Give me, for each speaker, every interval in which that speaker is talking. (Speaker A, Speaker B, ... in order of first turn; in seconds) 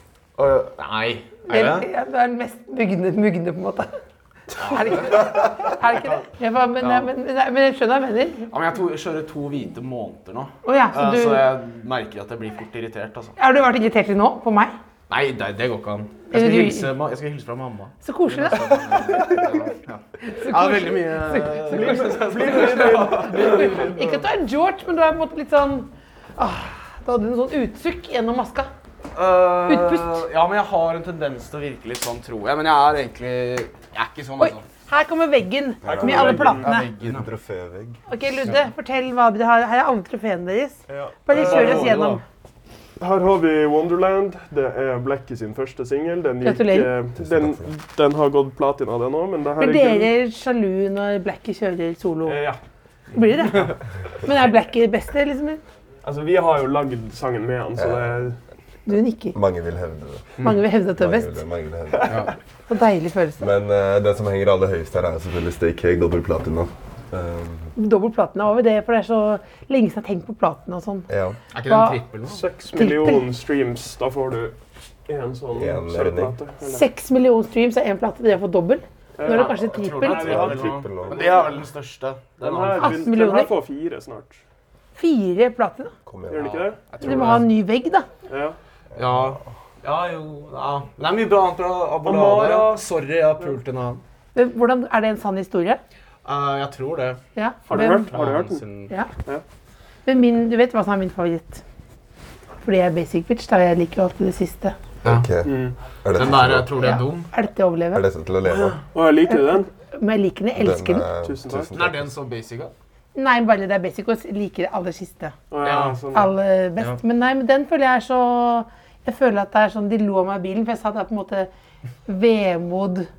Speaker A: 0.4-1.9, 4.5-6.2, 6.8-7.1, 8.5-13.4, 15.1-24.2, 29.1-34.6, 36.6-37.3, 41.3-42.2, 71.5-72.4, 79.3-82.8, 86.4-87.5, 88.9-94.0, 96.2-97.2, 98.1-98.9, 106.1-107.3, 111.7-112.7, 115.6-116.0
Speaker B: 1.5-3.9, 4.7-8.5, 10.6-11.5, 13.4-14.8, 16.3-16.9, 18.0-19.3, 20.2-28.7, 29.6-30.2, 34.4-36.8, 38.1-42.2, 46.4-46.9, 49.6-52.4, 53.1-55.6, 58.9-59.4, 60.4-61.4, 62.7-63.5, 67.8-71.1, 71.7-72.0, 72.7-73.2, 76.6-80.6, 82.8-83.5, 85.0-85.9, 87.0-88.1, 94.3-95.8, 97.3-98.1, 100.1-101.6, 102.6-104.8, 106.8-108.0, 109.3-111.1, 113.2-115.3, 116.1-121.5, 122.1-123.1
Speaker C: 21.7-24.0, 35.9-36.8, 40.9-42.1, 43.0-50.1, 52.2-52.6, 56.0-58.4, 72.2-74.6, 75.1-76.8, 79.2-80.8, 82.4-84.4, 86.3-87.4, 88.3-88.6, 92.0-92.8, 97.7-98.7, 105.4-105.8, 108.5-109.7, 111.2-111.7, 115.5-116.3
Speaker D: 35.8-38.0, 47.2-47.6, 57.8-58.2, 59.3-62.3, 63.4-67.7, 71.1-71.4, 75.5-76.4, 80.1-81.5, 86.1-86.6, 88.9-89.4, 105.0-106.7, 107.9-108.8, 110.6-112.2